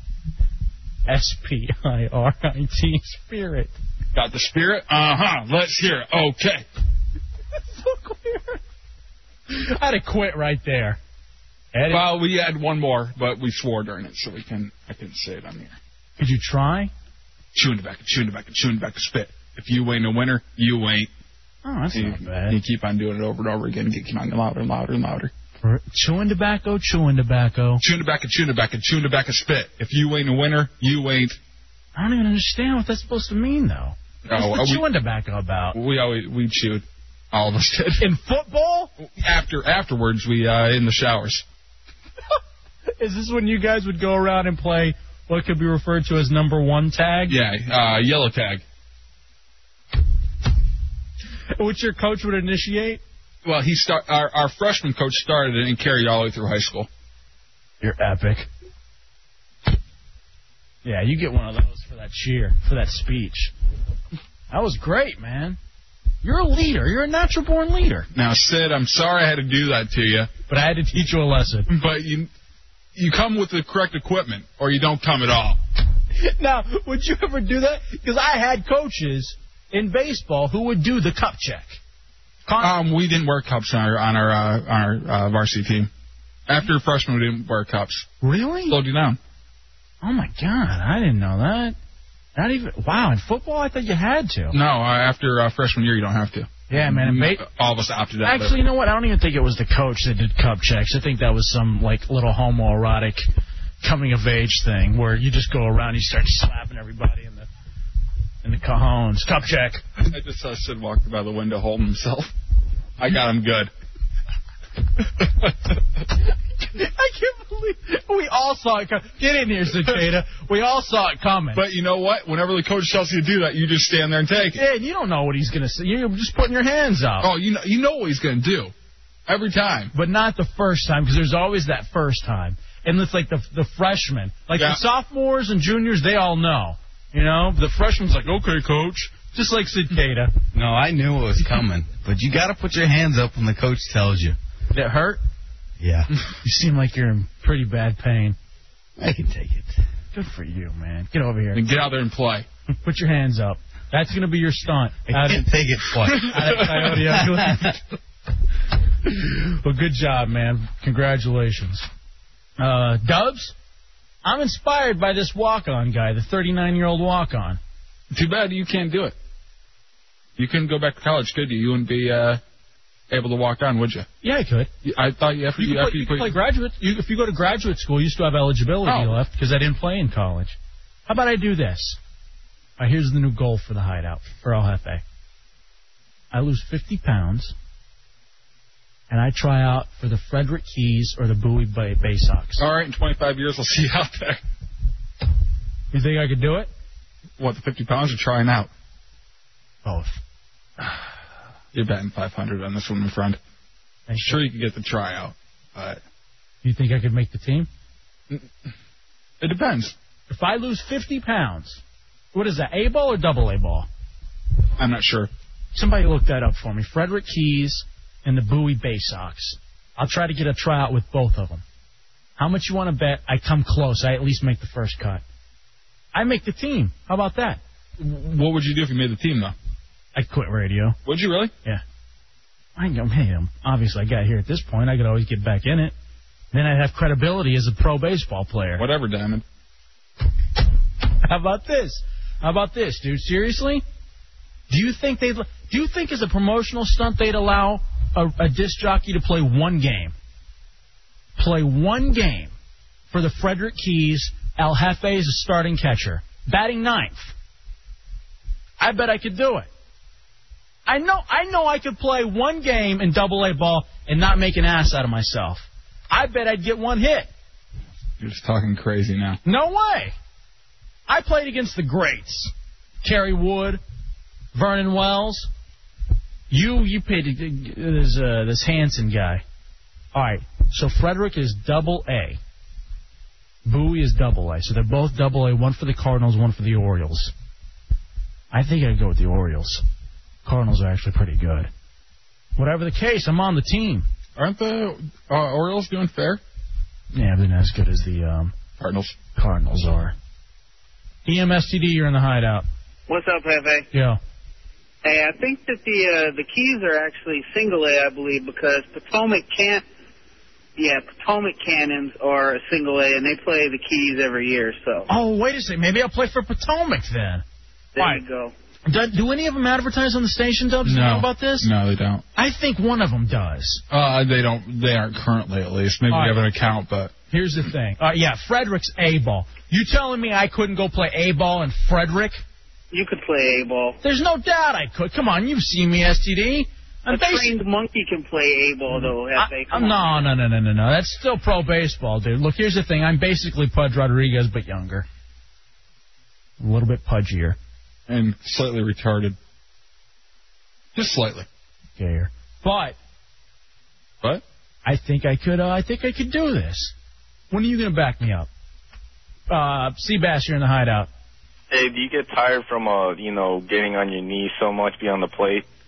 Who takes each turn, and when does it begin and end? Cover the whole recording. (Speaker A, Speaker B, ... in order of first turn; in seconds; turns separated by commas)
Speaker A: 1.1-3.8, Speaker B: 4.1-6.6, Speaker A: 7.7-8.6, Speaker A: 9.5-11.0, Speaker A: 11.7-12.1, Speaker B: 11.9-15.8, Speaker A: 16.2-16.9, Speaker B: 17.5-21.1, Speaker A: 21.6-22.6, Speaker B: 21.9-25.3, Speaker A: 25.6-27.8, Speaker B: 27.8-31.4, Speaker A: 31.9-35.8, Speaker B: 34.2-34.8, Speaker B: 35.7-38.0, Speaker A: 38.0-38.9, Speaker B: 39.0-41.4, Speaker A: 43.0-47.4, Speaker B: 47.3-48.6, Speaker A: 51.6-53.0, Speaker B: 53.4-56.9, Speaker A: 57.8-58.5, Speaker A: 60.8-63.5, Speaker A: 64.5-65.6, Speaker A: 66.2-68.1, Speaker B: 68.1-70.3, Speaker A: 70.5-71.7, Speaker B: 71.7-72.3, Speaker B: 72.9-75.6, Speaker A: 76.1-81.8, Speaker A: 82.5-82.7, Speaker B: 82.6-85.9, Speaker B: 86.5-88.1, Speaker A: 88.2-88.8, Speaker B: 88.7-89.2, Speaker A: 90.0-91.8, Speaker A: 92.3-94.6, Speaker B: 94.5-98.6, Speaker A: 96.7-97.4, Speaker A: 98.2-103.2, Speaker A: 103.8-107.5, Speaker A: 108.4-109.8, Speaker B: 110.0-112.3, Speaker B: 113.0-113.7, Speaker B: 115.2-115.5, Speaker A: 116.6-121.6, Speaker B: 121.5-124.6, Speaker A: 124.5-127.3, Speaker B: 127.2-128.7, Speaker B: 129.3-129.9, Speaker A: 129.9-140.3, Speaker B: 134.5-134.8, Speaker C: 140.5-144.4, Speaker A: 144.7-145.2, Speaker C: 145.8-146.1, Speaker A: 146.4-148.4, Speaker C: 149.0-149.8, Speaker A: 150.1-151.6, Speaker B: 151.5-152.4, Speaker A: 152.8-155.5, Speaker C: 155.1-157.8, Speaker B: 156.2-156.9, Speaker A: 156.2-157.7, Speaker A: 159.1-161.9, Speaker A: 162.6-163.5, Speaker A: 164.2-167.6, Speaker B: 168.1-169.2, Speaker B: 170.4-172.4, Speaker B: 173.1-174.1, Speaker A: 174.2-174.7, Speaker B: 174.8-176.3, Speaker A: 175.6-180.6, Speaker B: 178.8-179.2, Speaker A: 181.1-182.0, Speaker A: 182.8-185.0, Speaker A: 186.3-187.5, Speaker A: 189.1-192.7, Speaker B: 192.6-194.4, Speaker A: 195.9-196.7, Speaker B: 197.4-198.7, Speaker A: 199.8-200.2, Speaker B: 200.8-201.1, Speaker B: 201.7-203.4, Speaker A: 204.1-204.4, Speaker B: 204.2-206.0, Speaker A: 206.6-207.7, Speaker B: 209.4-209.9, Speaker A: 210.3-211.8, Speaker A: 212.3-213.9, Speaker B: 214.8-215.3, Speaker A: 215.7-221.6, Speaker A: 222.4-225.2, Speaker A: 226.1-227.6, Speaker B: 228.0-229.5, Speaker A: 230.1-231.0, Speaker B: 231.0-231.5, Speaker A: 232.8-235.9, Speaker A: 236.5-238.8, Speaker B: 238.8-239.4, Speaker A: 241.2-243.8, Speaker A: 244.7-250.1, Speaker A: 251.4-252.5, Speaker A: 253.1-257.3, Speaker A: 258.8-259.7, Speaker A: 260.9-267.3, Speaker B: 268.2-269.4, Speaker A: 269.4-270.1, Speaker A: 271.1-273.8, Speaker A: 274.5-275.5, Speaker A: 276.5-279.4, Speaker A: 280.1-282.4, Speaker A: 283.6-287.3, Speaker A: 288.5-289.8, Speaker A: 290.4-291.7, Speaker A: 292.6-294.1, Speaker B: 294.4-296.4, Speaker A: 297.1-298.5, Speaker B: 298.8-299.1, Speaker A: 299.3-300.1, Speaker A: 301.2-302.6, Speaker D: 303.1-303.9, Speaker A: 303.9-304.2, Speaker D: 305.0-309.8, Speaker D: 310.8-315.1, Speaker A: 315.1-317.4, Speaker D: 317.9-318.5, Speaker A: 318.9-321.7, Speaker B: 320.8-322.2, Speaker A: 322.4-323.8, Speaker B: 323.9-327.1, Speaker A: 326.1-326.4, Speaker A: 327.3-332.4, Speaker D: 332.9-334.0, Speaker A: 334.0-337.5, Speaker D: 337.1-340.1, Speaker A: 338.9-345.1, Speaker A: 346.6-347.6, Speaker B: 348.1-349.4, Speaker B: 350.9-351.5, Speaker A: 352.0-352.9, Speaker A: 354.8-356.9, Speaker A: 357.5-358.5, Speaker A: 359.5-361.1, Speaker E: 361.7-365.6